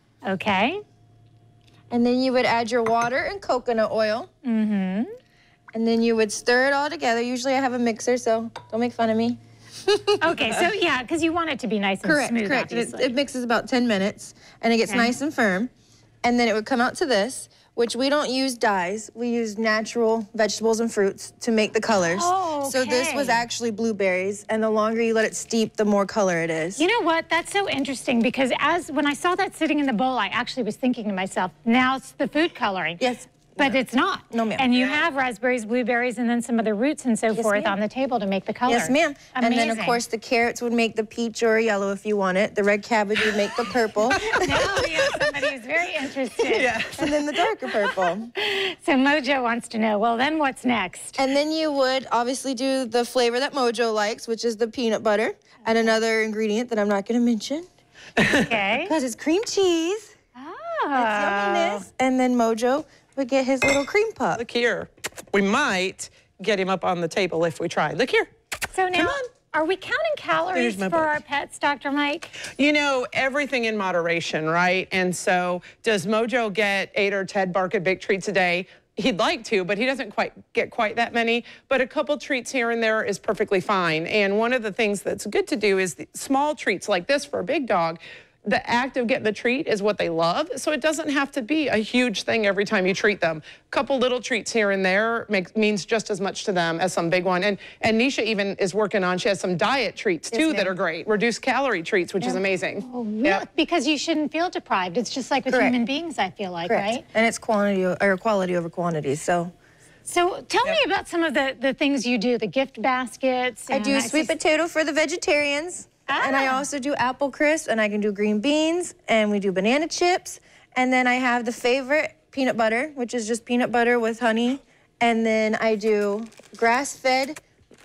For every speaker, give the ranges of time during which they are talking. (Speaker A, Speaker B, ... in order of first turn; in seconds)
Speaker A: 0.2-0.8, 4.4-5.1, 10.2-13.1, 14.9-15.2, 22.0-23.5, 26.8-33.0, 33.6-40.0, 44.3-46.9, 47.8-51.2, 58.2-58.9, 60.4-61.9, 68.7-72.4, 102.2-107.0, 110.1-114.3, 116.1-116.7
Speaker B: 1.9-4.3, 5.7-10.7, 12.0-15.7, 16.2-26.8, 33.0-33.8, 34.3-34.7, 37.3-37.8, 38.7-44.8, 46.9-48.3, 51.2-57.7, 58.8-60.1, 61.0-64.4, 100.3-100.7, 105.5-105.8, 106.7-109.5, 113.7-127.4
Speaker C: 34.8-35.0, 44.1-45.2, 46.4-47.1, 58.2-58.4, 64.4-68.3, 68.9-69.2, 70.5-71.2, 72.5-103.5